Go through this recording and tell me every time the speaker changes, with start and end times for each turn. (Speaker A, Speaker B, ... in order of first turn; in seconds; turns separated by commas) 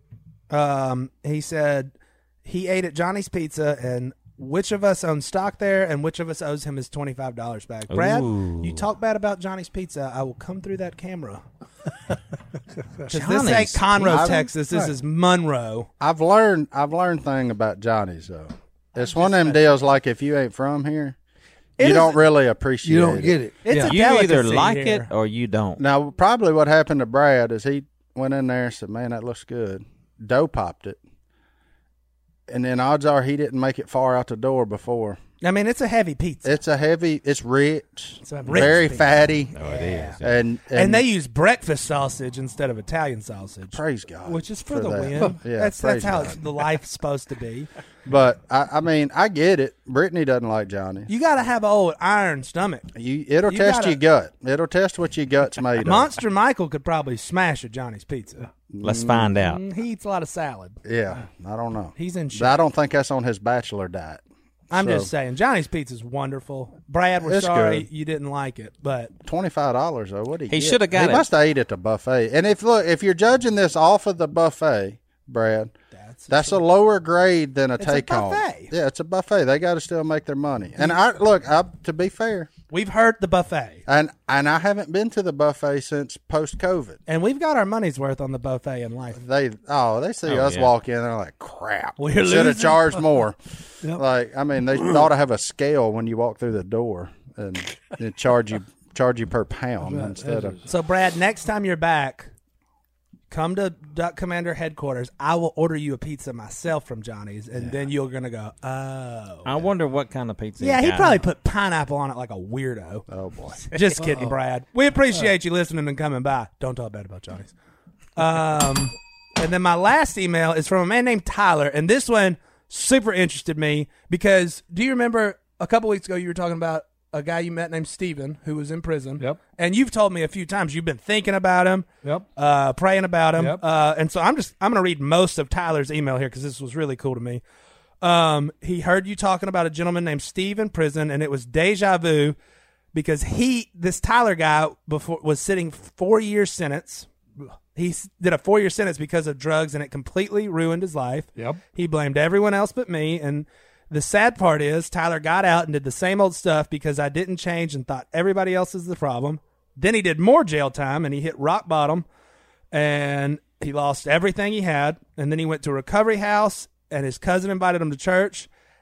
Speaker A: 0.5-1.9, Speaker A: 2.4-11.4, Speaker B: 7.9-8.8, Speaker C: 13.0-13.5, Speaker A: 13.1-15.9, Speaker B: 13.1-14.3, Speaker D: 14.0-14.4, Speaker C: 14.1-14.9, Speaker D: 16.0-21.2, Speaker A: 19.0-19.6, Speaker A: 21.8-22.2, Speaker D: 21.8-23.4, Speaker C: 22.8-23.9, Speaker A: 23.6-25.1, Speaker B: 23.8-25.8, Speaker D: 25.8-31.0, Speaker D: 32.5-35.2, Speaker A: 35.4-36.5, Speaker D: 36.5-39.5, Speaker A: 38.2-47.7, Speaker B: 38.5-38.8, Speaker B: 39.5-40.4, Speaker D: 40.2-41.0, Speaker D: 43.7-46.4, Speaker D: 48.1-51.1, Speaker A: 51.1-52.9, Speaker D: 53.0-56.1, Speaker A: 53.5-54.0, Speaker A: 55.8-58.5, Speaker D: 58.7-59.4, Speaker B: 58.8-59.6, Speaker A: 59.4-60.8, Speaker D: 60.9-65.1, Speaker A: 62.0-62.6, Speaker A: 64.7-69.1, Speaker D: 67.2-67.9, Speaker D: 69.2-75.7, Speaker B: 70.5-71.2, Speaker A: 75.9-76.6, Speaker D: 76.3-82.5, Speaker A: 77.8-78.7, Speaker A: 82.7-83.8, Speaker D: 83.9-87.0, Speaker A: 87.1-89.2, Speaker D: 89.1-93.4, Speaker B: 90.3-90.7, Speaker A: 92.0-92.9, Speaker D: 93.9-100.6, Speaker C: 99.8-100.7, Speaker A: 100.7-102.3, Speaker A: 103.3-109.5, Speaker B: 109.5-111.2, Speaker A: 110.6-117.5, Speaker D: 113.1-113.6, Speaker A: 118.2-137.4, Speaker C: 133.4-133.6, Speaker A: 138.0-142.4, Speaker A: 142.9-147.1, Speaker A: 147.7-162.1, Speaker A: 162.7-168.5